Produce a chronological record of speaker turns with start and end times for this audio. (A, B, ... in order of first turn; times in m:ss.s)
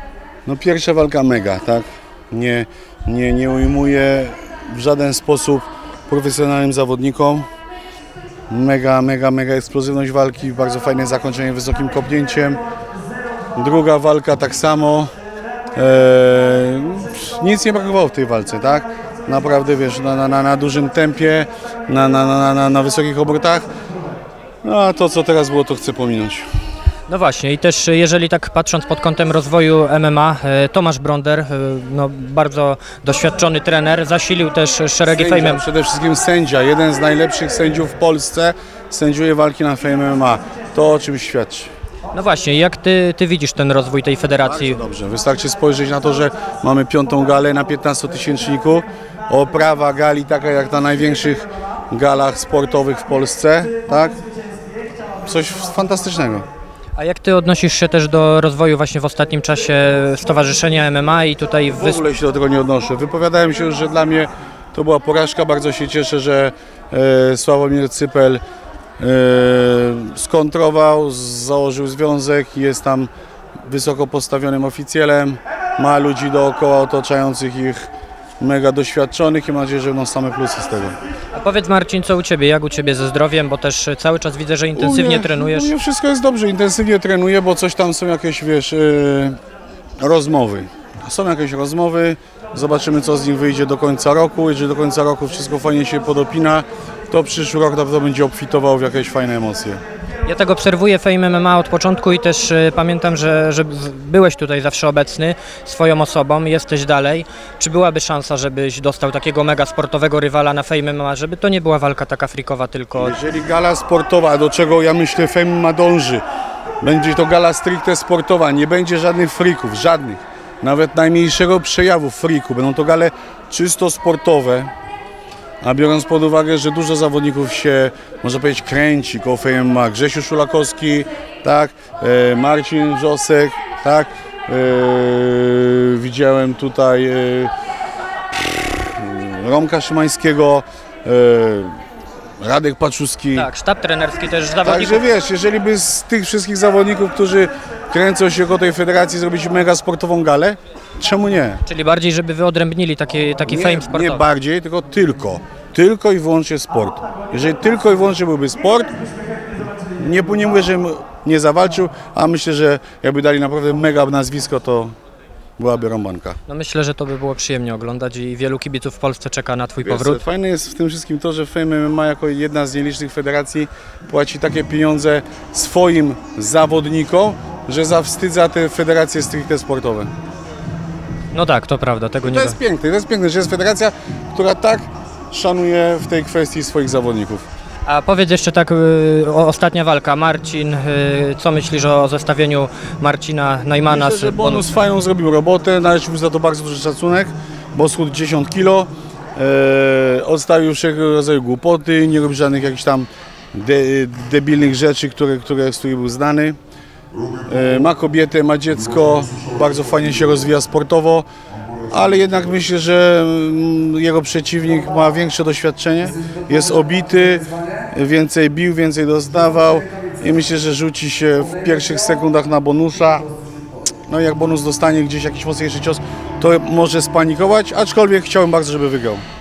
0:00.5-0:07.5 A
0:08.5-0:12.6 A
0:13.6-0:15.1 A
0:15.8-0:23.7 A
0:24.6-0:26.5 A
0:27.1-0:35.6 B
0:35.1-0:41.7 A
0:42.1-0:44.8 B
0:44.4-0:54.2 A
0:55.2-0:56.4 A
0:57.0-1:02.0 B
1:01.7-1:08.4 A
1:09.0-1:13.1 A
1:13.7-1:21.0 A
1:21.3-1:25.7 B
1:24.8-1:29.4 A
1:30.0-1:39.8 A
1:40.2-1:53.2 B
1:53.0-1:56.2 A
1:56.8-2:04.7 A
2:05.6-2:17.5 A
2:18.8-2:21.7 A
2:22.4-2:23.5 A
2:23.4-2:25.0 B
2:24.6-2:31.6 A
2:31.7-2:34.2 B
2:33.5-2:39.0 A
2:40.0-2:44.9 A
2:45.6-2:46.4 A
2:46.5-2:50.2 B
2:49.8-3:00.1 A
3:01.3-3:02.6 B
3:02.2-3:07.5 A
3:07.9-3:14.7 B
3:13.9-3:26.6 A
3:27.5-3:31.3 A
3:31.9-3:43.3 A
3:44.1-3:49.2 A